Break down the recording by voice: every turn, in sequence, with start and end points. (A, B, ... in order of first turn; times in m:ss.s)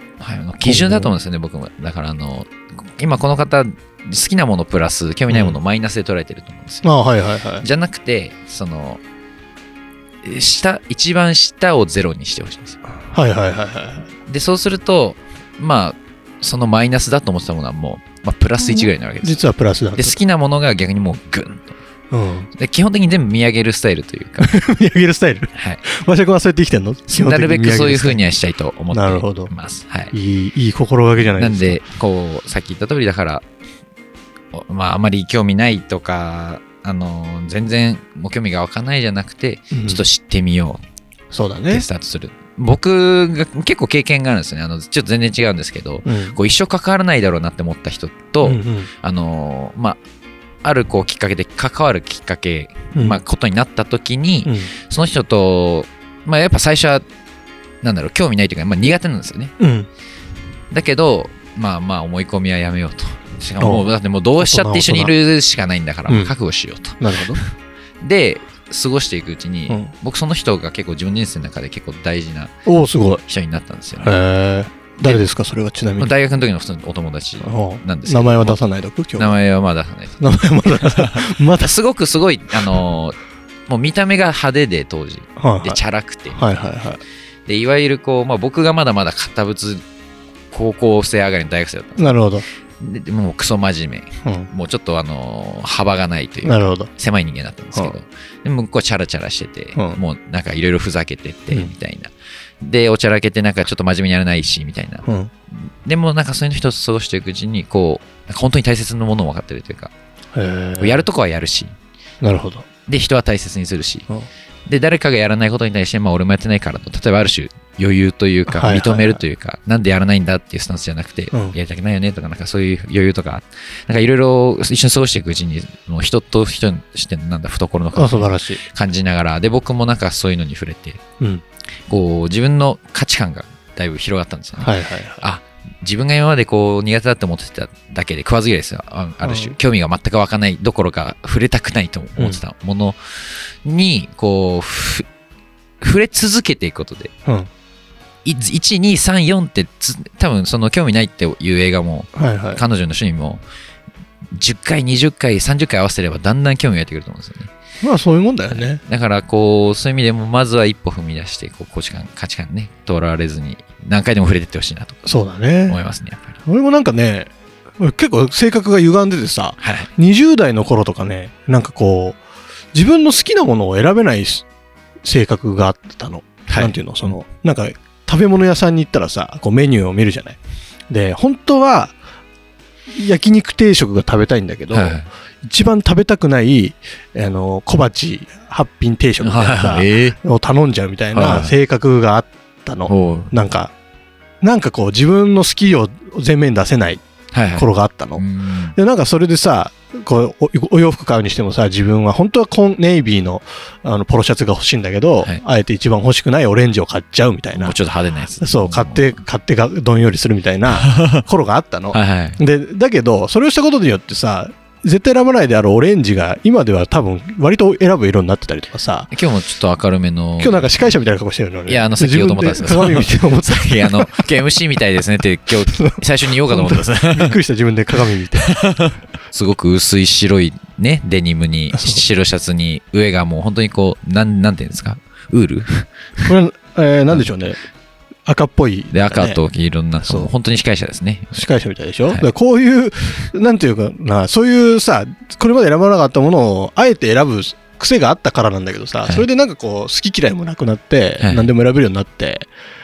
0:00.2-0:06.9 A
0:00.6-0:01.1 B
0:05.3-0:05.6 B
0:06.8-0:07.7 B
0:07.6-0:09.0 A
0:10.2-0:12.8 A
0:13.1-0:14.0 B
0:14.3-0:19.4 A
0:18.7-0:20.2 B
0:20.0-0:21.7 A
0:22.1-0:22.5 B
0:22.6-0:24.5 A
0:24.4-0:28.2 B
0:25.5-0:25.8 A
0:27.1-0:30.1 A
0:28.9-0:29.5 B
0:30.1-0:31.8 B
0:31.4-0:33.4 A
0:34.5-0:40.8 A
0:39.7-0:40.0 B
0:41.3-0:41.9 B
0:41.7-0:50.0 A
0:46.1-0:46.4 B
0:48.4-0:48.9 B
0:50.6-0:57.0 A
0:53.0-0:53.2 B
0:54.4-0:54.7 B
0:57.8-0:59.5 A
0:59.6-0:59.9 B
1:00.7-1:12.5 A
1:03.6-1:05.1 B
1:06.1-1:06.3 B
1:07.0-1:07.4 B
1:12.7-1:13.2 B
1:13.3-1:14.2 A
1:14.0-1:16.1 B
1:16.0-1:18.6 A
1:17.4-1:19.4 B
1:19.2-1:23.2 A
1:20.2-1:21.7 B
1:23.7-1:26.6 A
1:25.4-1:27.0 B
1:27.5-1:29.8 A
1:30.5-1:32.1 A
1:32.0-1:32.4 B
1:32.8-1:49.9 A
1:34.2-1:34.5 B
1:36.4-1:36.9 B
1:45.0-1:45.3 B
1:50.3-1:51.1 B
1:50.8-1:51.7 A
1:52.2-1:52.7 B
1:52.9-1:54.1 A
1:54.7-2:11.0 A
1:58.5-1:59.2 B
2:08.0-2:08.6 B
2:11.9-2:25.1 A
2:14.6-2:15.2 B
2:19.2-2:19.6 B
2:25.8-2:27.1 A
2:28.2-2:33.4 A
2:32.2-2:32.6 B
2:34.3-2:37.5 A
2:37.8-2:38.8 B
2:38.5-2:45.1 A
2:45.1-2:45.8 B
2:45.7-2:46.4 A
2:46.5-2:52.2 B
2:49.6-2:49.9 A
2:52.7-2:54.4 B
2:55.0-3:00.4 B
2:56.5-2:57.1 A
3:00.9-3:02.0 B
3:02.9-3:13.7 B
3:04.7-3:05.1 A
3:09.2-3:10.2 A
3:11.1-3:11.5 A
3:12.9-3:13.3 A
3:14.4-3:17.0 B
3:17.3-3:18.8 A
3:17.5-3:18.2 B
3:18.8-3:27.8 B
3:27.6-3:29.2 A
3:28.4-3:39.1 B
3:30.8-3:31.2 A
3:31.9-3:32.4 A
3:39.1-3:40.7 A
3:40.4-3:44.1 B
3:41.7-3:47.4 A
3:45.7-3:48.6 B
3:48.4-3:56.3 A
3:51.7-3:52.0 B
3:56.2-3:57.6 B
3:58.3-3:59.4 B
3:58.9-4:01.5 A
4:00.0-4:00.3 B
4:01.3-4:12.5 B
4:11.2-4:11.5 A